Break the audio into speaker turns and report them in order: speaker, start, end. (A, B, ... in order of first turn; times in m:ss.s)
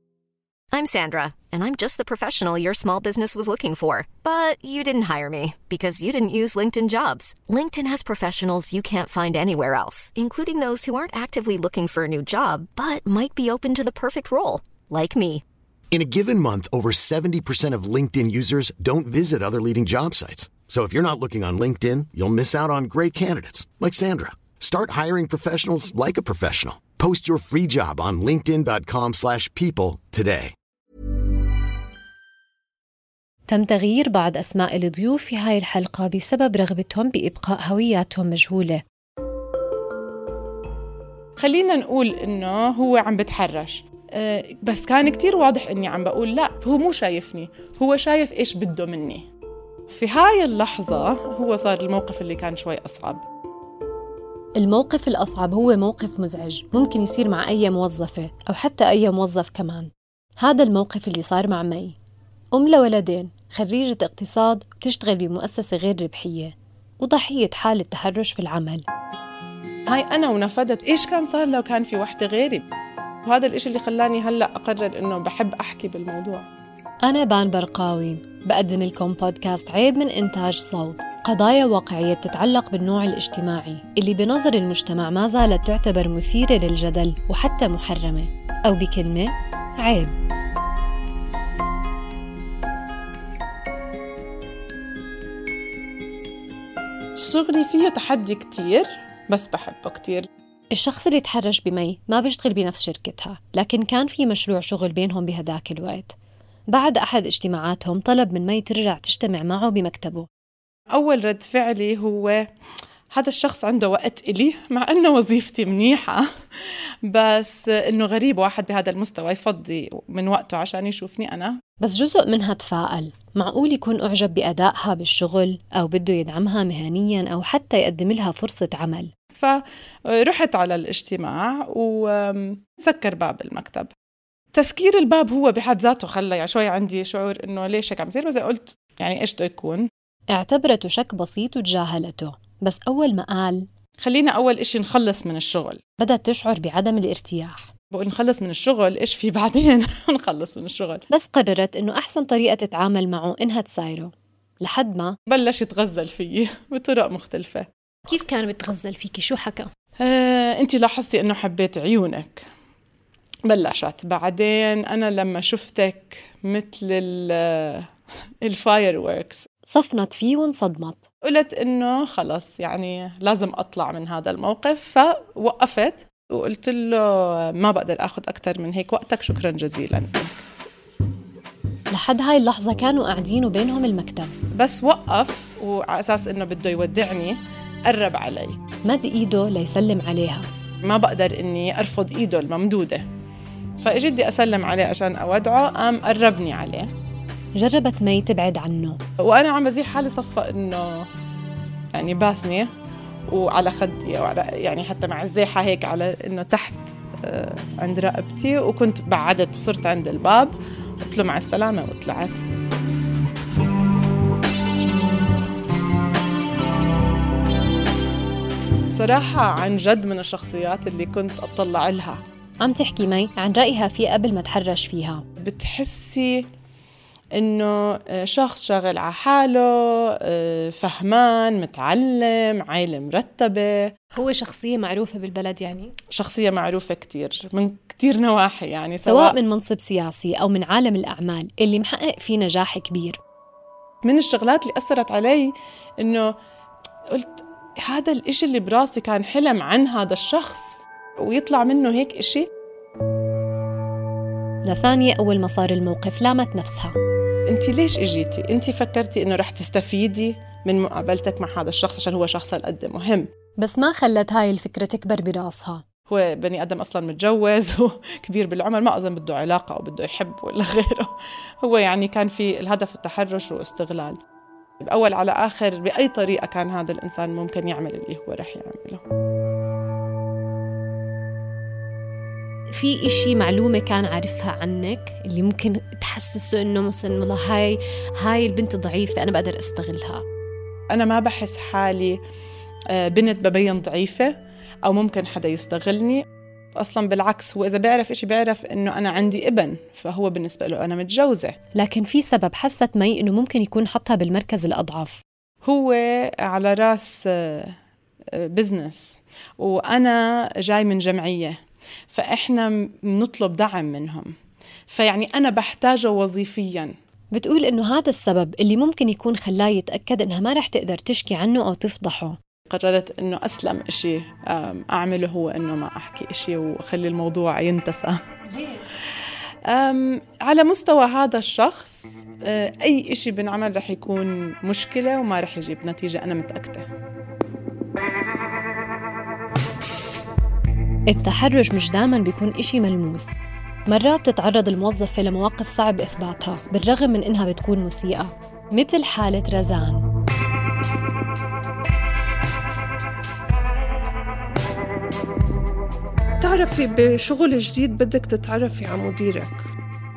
0:00.7-0:15.4 A
0:15.9-0:30.5 B
0:33.5-0:38.8 C
0:41.4-0:49.2 D
0:49.9-0:53.2 D
0:54.6-1:02.0 C
1:02.5-1:08.8 C
1:09.9-1:12.6 D
1:13.2-1:16.4 D
1:17.0-1:30.1 C
1:37.2-1:40.2 D
1:40.7-1:46.1 C
1:46.7-1:50.3 C
1:50.9-1:52.4 D
1:53.1-1:56.2 D
1:57.1-2:01.5 D
2:01.8-2:09.1 C
2:09.3-2:13.9 D
2:14.5-2:19.8 D
2:20.3-2:23.7 C
2:24.0-2:25.8 D
2:26.0-2:27.7 C
2:27.9-2:31.0 D
2:31.1-2:35.2 C
2:35.3-2:37.6 D
2:38.1-2:39.7 C
2:40.0-2:42.4 D
2:43.5-2:47.8 D
2:48.4-2:49.4 D
2:49.7-2:51.0 C
2:51.2-3:00.4 D
3:01.9-3:04.3 C
3:04.6-3:07.4 D
3:07.9-3:08.6 D
3:08.8-3:10.4 C
3:10.8-3:13.0 D
3:13.8-3:16.9 D
3:17.6-3:19.0 C
3:19.2-3:21.1 D
3:21.9-3:22.7 D
3:23.3-3:32.4 D
3:38.9-3:42.2 D
3:42.6-3:45.2 C
3:45.4-3:46.4 D
3:47.4-3:49.7 D
3:50.2-3:53.6 D
3:54.2-3:55.9 C
3:56.1-3:59.4 D
3:59.0-4:03.2 C
4:04.0-4:06.3 D
4:07.1-4:12.4 D
4:14.7-4:16.9 C
4:17.5-4:23.3 D
4:23.6-4:25.8 C
4:26.1-4:31.1 D
4:31.6-4:34.2 D
4:34.8-4:39.0 D
4:42.7-4:50.2 C
4:50.9-4:52.2 D
4:52.9-4:54.3 D
4:54.8-4:56.2 D
4:56.8-5:01.5 D
5:01.8-5:05.2 C
5:05.6-5:07.7 D
5:08.5-5:11.5 D
5:12.1-5:14.3 D
5:14.9-5:16.9 D
5:17.3-5:22.4 C
5:22.7-5:28.2 D
5:29.7-5:36.8 D
5:41.1-5:43.4 C
5:43.9-5:50.0 C
5:56.4-5:59.6 E